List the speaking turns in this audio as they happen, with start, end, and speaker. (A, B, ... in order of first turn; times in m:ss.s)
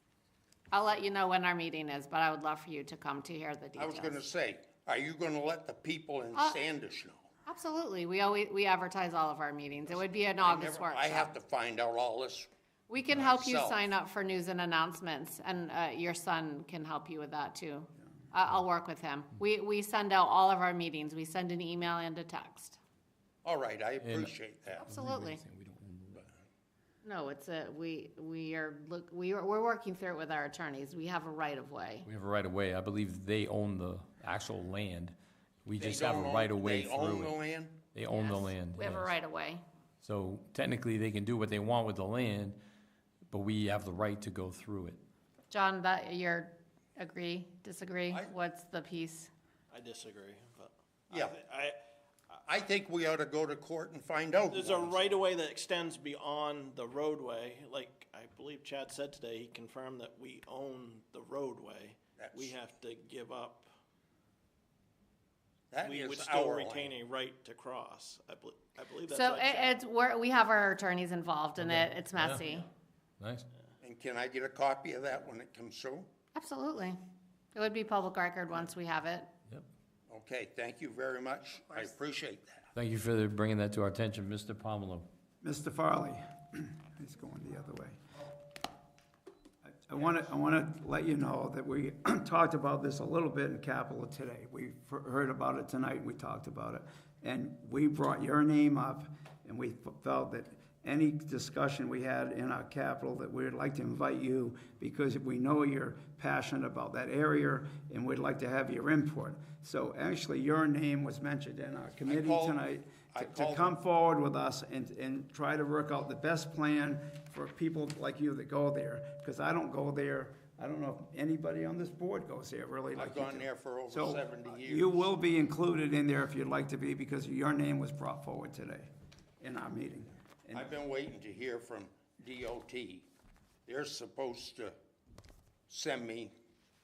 0:00.7-0:04.2 A
0:03.8-0:07.3 B
0:06.3-0:06.6 A
0:07.4-0:11.3 A
0:10.4-0:12.5 B
0:12.9-0:22.8 A
0:13.1-0:13.8 B
0:23.4-0:24.8 B
0:24.0-0:24.3 C
0:24.8-0:25.4 A
0:24.8-0:26.3 C
0:27.0-0:32.1 A
0:32.0-0:37.3 C
0:35.8-0:37.8 B
0:37.9-0:39.1 C
0:38.1-0:39.6 A
0:40.0-0:42.6 C
0:43.3-0:45.0 C
0:45.5-0:49.3 A
0:49.7-0:51.8 D
0:51.1-0:51.4 B
0:52.4-0:55.2 B
0:54.4-1:03.7 D
1:02.2-1:02.5 B
1:05.7-1:06.9 B
1:05.8-1:09.8 D
1:09.1-1:12.7 A
1:11.6-1:12.4 C
1:13.2-1:13.4 C
1:13.8-1:16.1 B
1:16.3-1:17.0 A
1:17.5-1:19.3 A
1:20.1-1:22.7 B
1:22.7-1:25.1 C
1:25.4-1:28.2 E
1:29.6-2:08.9 E
1:52.0-1:52.6 B
1:53.1-1:53.8 B
2:02.9-2:05.1 B
2:09.4-2:10.7 E
2:10.5-2:13.1 B
2:13.6-2:14.7 B
2:15.7-2:16.3 B